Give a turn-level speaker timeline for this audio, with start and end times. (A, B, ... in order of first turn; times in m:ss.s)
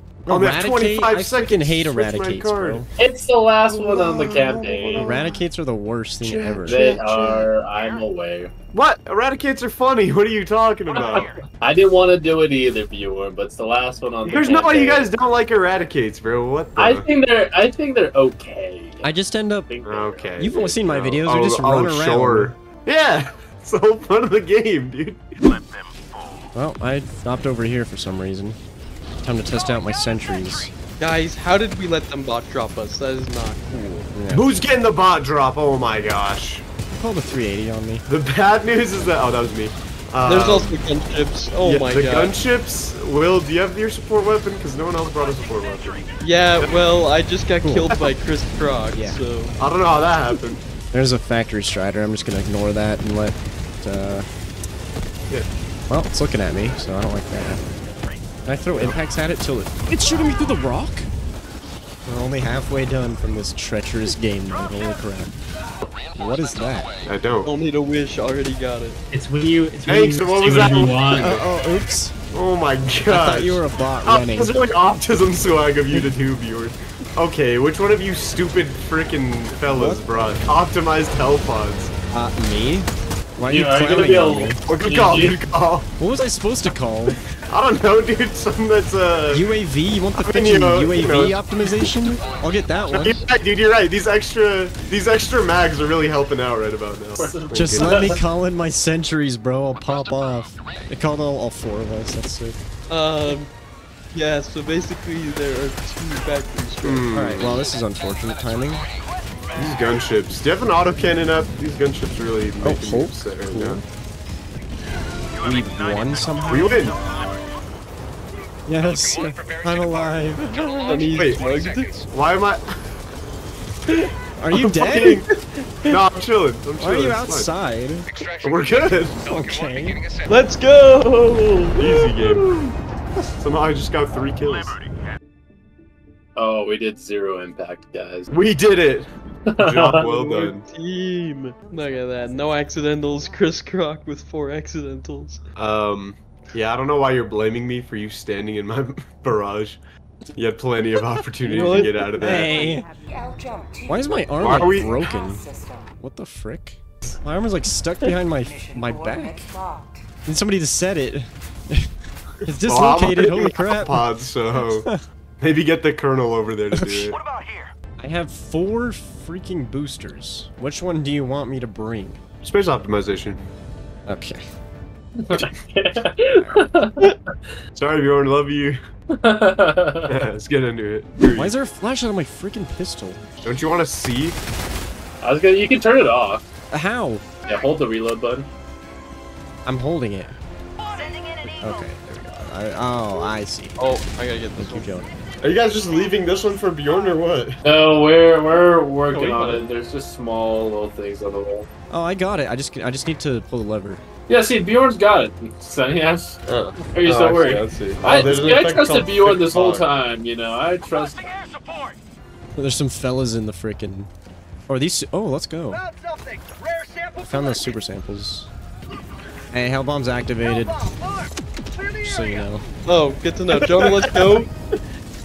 0:00.2-0:02.9 A
0:00.3-0:02.8 B
0:03.0-0:05.1 C
0:03.7-0:05.4 B
0:05.0-0:06.8 A
0:06.2-0:08.5 C
0:08.7-0:11.3 B
0:10.9-0:15.1 C
0:14.2-0:17.1 B
0:16.8-0:19.1 C
0:19.0-0:19.7 A
0:19.6-0:20.3 C
0:19.8-0:25.2 B
0:20.4-0:22.5 A
0:26.5-0:28.6 A
0:29.2-0:30.7 A
0:31.0-0:34.0 D
0:34.0-0:34.4 A
0:34.3-0:36.6 B
0:36.9-0:38.0 A
0:38.1-0:40.7 B
0:40.2-0:42.4 D
0:41.6-0:46.0 B
0:46.2-0:49.5 D
0:47.6-0:47.9 A
0:48.9-0:49.2 A
0:49.6-0:50.6 B
0:50.9-0:54.3 A
0:55.9-0:57.6 A
0:58.4-1:01.1 A
1:02.0-1:05.3 A
1:06.2-1:06.9 A
1:07.0-1:07.5 B
1:07.4-1:09.0 D
1:09.1-1:11.3 E
1:09.8-1:11.4 B
1:11.2-1:12.1 A
1:12.3-1:21.9 B
1:13.1-1:14.6 A
1:19.7-1:20.4 A
1:22.1-1:24.6 A
1:23.5-1:25.4 C
1:24.7-1:25.9 B
1:26.0-1:27.2 A
1:27.5-1:29.5 B
1:29.3-1:33.2 A
1:30.2-1:32.2 B
1:32.9-1:38.2 B
1:37.2-1:38.2 C
1:37.5-1:42.6 A
1:42.9-1:43.5 D
1:44.1-1:47.1 D
1:46.8-1:47.6 B
1:47.1-1:48.8 A
1:49.5-1:53.8 B
1:52.6-1:53.8 A
1:55.4-1:56.9 A
1:56.5-1:56.9 B
1:58.7-2:00.9 A
2:00.8-2:02.0 D
2:01.1-2:01.4 B
2:02.1-2:02.7 B
2:04.4-2:05.2 A
2:04.5-2:05.3 B
2:05.0-2:06.0 D
2:05.9-2:07.5 B
2:06.8-2:08.1 A
2:08.4-2:09.2 B
2:09.2-2:10.0 A
2:10.3-2:12.4 D
2:11.8-2:12.7 B
2:13.4-2:14.8 B
2:16.4-2:18.3 C
2:18.3-2:20.6 B
2:19.5-2:20.0 C
2:19.9-2:25.4 D
2:25.6-2:29.8 B
2:30.3-2:32.6 B
2:31.4-2:32.1 D
2:32.2-2:32.9 A
2:33.8-2:35.5 A
2:34.4-2:34.9 B
2:36.0-2:39.5 A
2:40.2-2:41.9 A
2:42.4-2:44.1 A
2:42.6-2:44.9 B
2:45.4-2:47.2 B
2:46.7-2:47.1 A
2:48.0-2:52.2 A
2:52.4-2:53.4 B
2:54.1-2:54.4 A
2:55.3-2:57.1 C
2:56.3-2:56.7 A
2:57.7-2:58.8 B
2:59.2-3:00.1 C
3:00.1-3:01.5 B
3:01.3-3:03.3 A
3:03.4-3:04.4 B
3:05.2-3:06.4 C
3:06.7-3:07.2 A
3:07.5-3:08.5 C
3:09.6-3:10.4 A
3:11.4-3:13.8 A
3:13.8-3:14.9 D
3:14.6-3:15.1 A
3:15.4-3:17.6 B
3:17.6-3:21.7 C
3:19.1-3:19.6 D
3:21.9-3:24.0 A
3:24.3-3:31.4 C
3:26.4-3:29.8 B
3:32.6-3:34.1 A
3:34.7-3:35.8 A
3:37.2-3:38.5 A
3:39.5-3:41.0 A
3:41.8-3:42.6 A
3:42.8-3:44.5 D